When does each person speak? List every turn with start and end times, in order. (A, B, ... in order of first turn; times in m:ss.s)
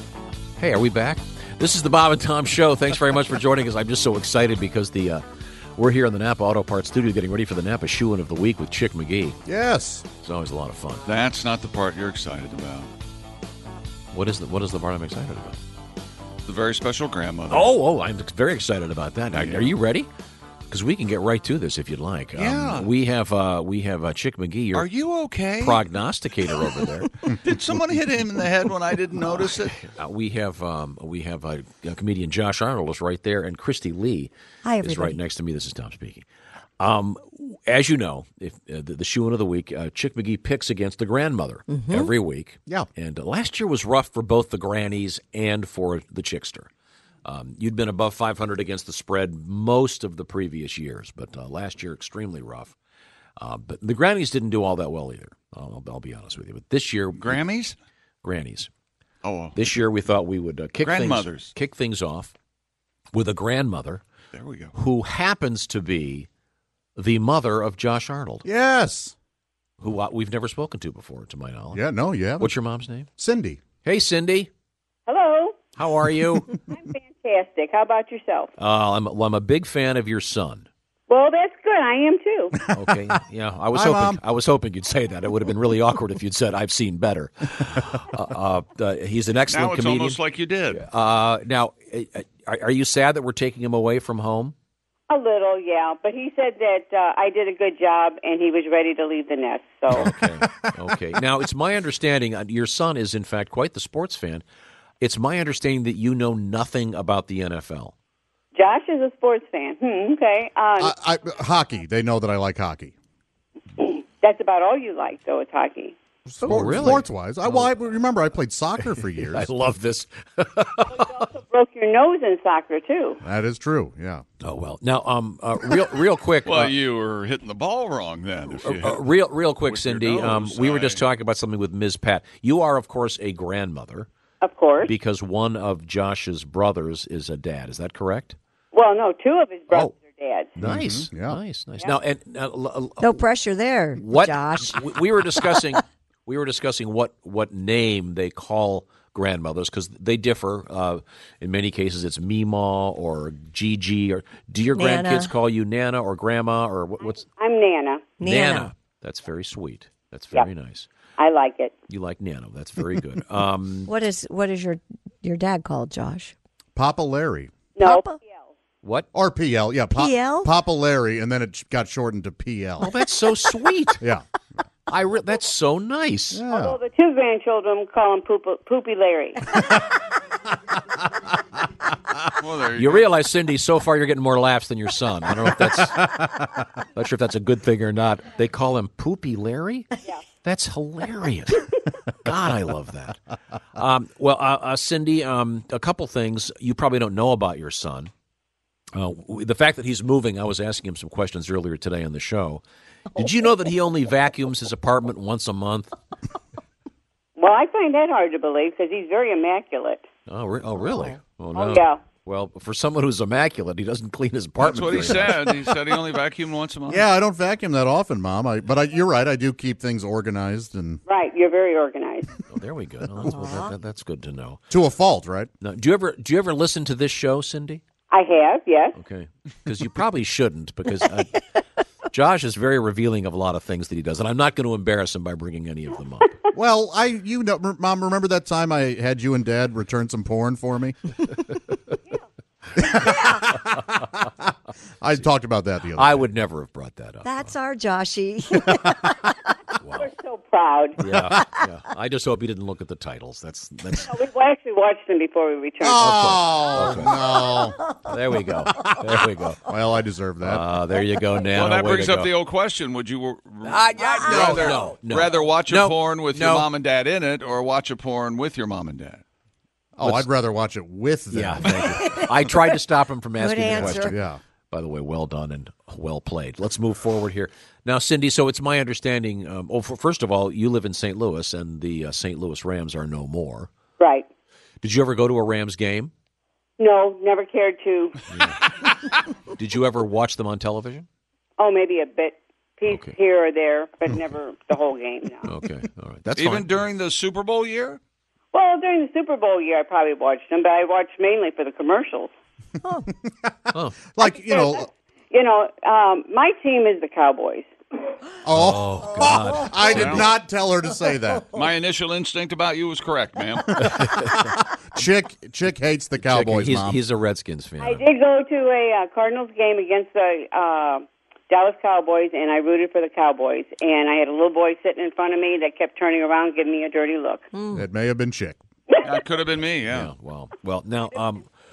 0:00.6-0:05.2 A
0:05.8-0:09.4 A
0:09.5-0:10.0 B
0:10.2-0:11.0 A
0:11.0-0:12.9 C
0:14.1-0:15.6 A
0:16.4-0:17.7 C
0:17.5-0:20.1 A
0:19.3-0:19.7 C
0:20.7-0:24.9 A
0:22.3-0:22.9 C
0:24.7-0:25.8 C
0:25.6-0:27.3 A
0:27.2-0:29.8 C
0:29.2-0:36.3 A
0:34.6-0:35.2 D
0:36.8-0:46.7 A
0:41.7-0:42.1 D
0:47.2-0:52.8 A
0:53.4-0:57.4 A
0:57.2-0:57.8 C
0:58.2-0:58.7 A
0:59.2-0:59.6 C
0:59.6-1:02.3 A
1:00.8-1:01.5 C
1:03.1-1:04.0 A
1:04.3-1:04.7 C
1:04.7-1:06.3 A
1:07.0-1:08.4 A
1:08.4-1:09.1 B
1:09.8-1:13.1 A
1:11.7-1:12.5 B
1:13.2-1:13.6 B
1:13.8-1:14.5 A
1:15.1-1:15.7 E
1:15.8-1:16.6 A
1:16.7-1:18.5 E
1:18.6-1:20.7 A
1:21.1-1:22.6 E
1:22.7-1:34.6 A
1:23.7-1:24.2 B
1:29.5-1:30.8 C
1:35.1-1:40.1 E
1:39.9-1:44.4 A
1:40.0-1:40.4 B
1:45.0-1:47.9 A
1:48.6-1:50.9 E
1:50.8-1:52.9 B
1:53.8-1:56.0 E
1:56.2-1:59.5 B
1:56.4-1:58.0 A
1:58.8-2:01.2 A
2:00.9-2:03.2 E
2:03.2-2:04.2 B
2:04.4-2:06.8 A
2:06.4-2:09.0 C
2:08.5-2:14.1 A
2:09.6-2:11.0 C
2:14.4-2:14.9 E
2:14.9-2:18.4 A
2:18.7-2:20.5 E
2:20.6-2:23.2 A
2:20.6-2:21.4 B
2:23.0-2:25.8 D
2:24.0-2:37.2 A
2:34.7-2:35.4 D
2:37.1-2:38.2 E
2:38.2-2:38.7 D
2:38.2-2:40.9 A
2:41.2-2:41.7 E
2:41.9-2:43.9 A
2:43.9-2:46.3 D
2:46.8-2:47.5 B
2:47.8-2:48.5 E
2:47.8-2:48.2 D
2:48.8-2:49.1 A
2:49.1-2:52.9 B
2:50.0-2:50.5 D
2:52.8-2:54.1 A
2:54.9-2:56.4 A
2:56.3-2:56.8 B
2:56.5-2:59.5 E
3:02.4-3:03.1 C
3:02.7-3:06.4 A
3:06.9-3:09.9 A
3:10.4-3:13.2 A
3:13.8-3:18.1 A
3:18.9-3:26.0 A
3:27.4-3:30.0 E
3:30.3-3:35.6 A
3:31.5-3:32.0 E
3:34.6-3:37.0 C
3:36.9-3:41.0 B
3:41.1-3:42.4 E
3:42.5-3:44.6 A
3:43.4-3:43.7 D
3:44.7-3:45.5 B
3:45.6-3:47.8 A
3:48.1-3:49.0 E
3:48.9-3:56.4 A
3:56.5-4:01.0 B
4:02.8-4:03.8 B
4:05.0-4:06.2 B
4:05.9-4:07.5 A
4:07.2-4:09.4 D
4:09.8-4:10.1 A
4:10.0-4:11.0 E
4:11.0-4:14.1 A
4:14.0-4:16.3 E
4:15.8-4:17.8 B
4:16.0-4:17.2 A
4:18.0-4:19.8 A
4:19.6-4:20.7 B
4:20.4-4:22.3 A
4:21.5-4:29.2 C
4:23.6-4:26.7 A
4:24.0-4:24.7 D
4:30.0-4:32.2 B
4:30.0-4:30.3 A
4:31.3-4:34.2 A
4:31.9-4:32.4 D
4:33.4-4:34.2 D
4:33.7-4:34.4 B
4:34.7-4:43.7 A
4:44.0-4:44.2 E
4:44.8-4:46.1 A
4:46.8-4:48.2 E
4:48.3-4:48.6 A
4:49.5-4:51.1 A
4:51.6-4:55.5 E
4:52.8-4:53.2 A
4:55.4-4:56.7 A
4:56.4-4:58.0 C
4:58.5-5:02.3 E
5:03.7-5:04.1 A
5:04.2-5:04.9 B
5:04.2-5:07.7 E
5:08.4-5:11.5 B
5:08.5-5:10.3 A
5:09.9-5:10.3 C
5:11.5-5:13.9 C
5:13.8-5:17.0 B
5:13.9-5:14.5 A
5:16.2-5:18.0 A
5:17.8-5:27.5 E
5:27.6-5:27.8 D
5:27.7-5:28.6 B
5:29.0-5:30.1 C
5:29.9-5:31.5 A